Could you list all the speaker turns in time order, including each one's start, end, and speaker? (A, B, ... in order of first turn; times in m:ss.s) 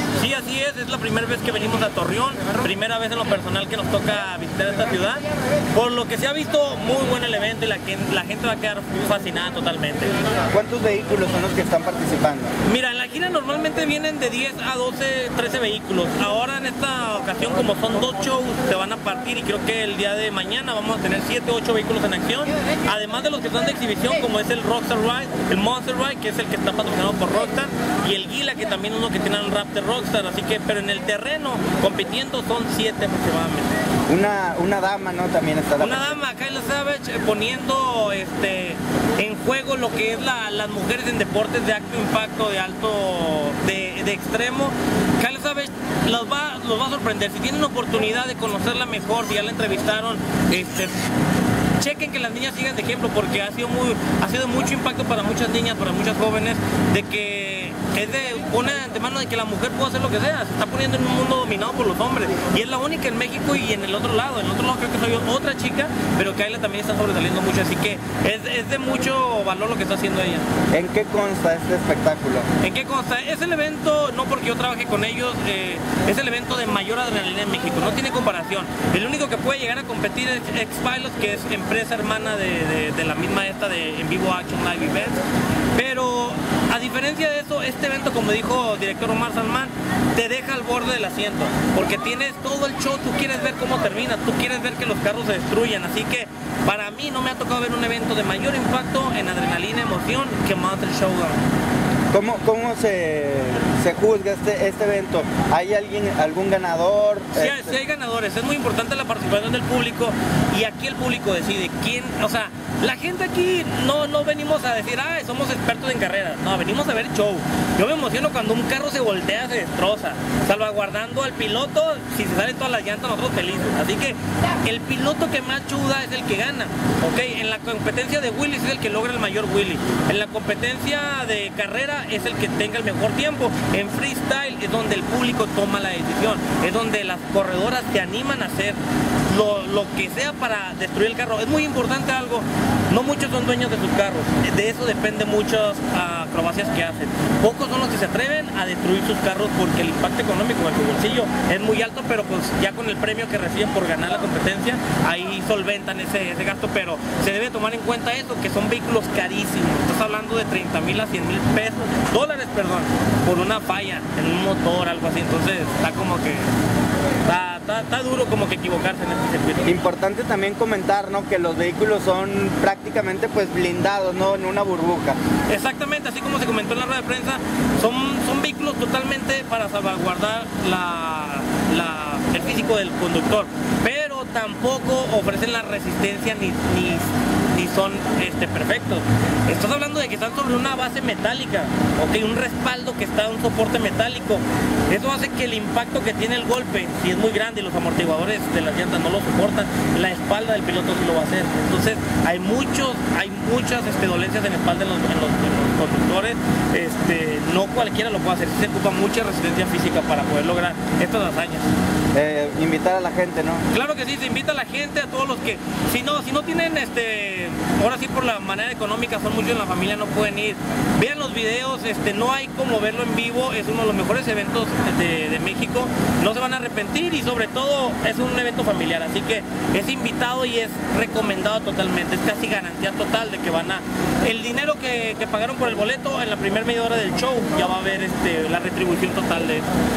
0:00.1-0:10.1 A
0:10.5-0:12.5 B
0:12.6-0:33.7 A
0:34.1-0:36.2 B
0:35.8-0:51.0 A
0:51.8-1:10.4 A
1:10.7-1:12.4 B
1:12.6-1:25.2 A
1:25.7-1:41.4 A
1:42.1-1:47.8 B
1:47.4-2:18.8 A
2:19.3-2:46.5 A
2:47.2-2:49.8 A
2:49.6-2:55.2 B
2:55.5-3:31.6 A
3:32.1-3:33.6 B
3:33.7-3:59.7 A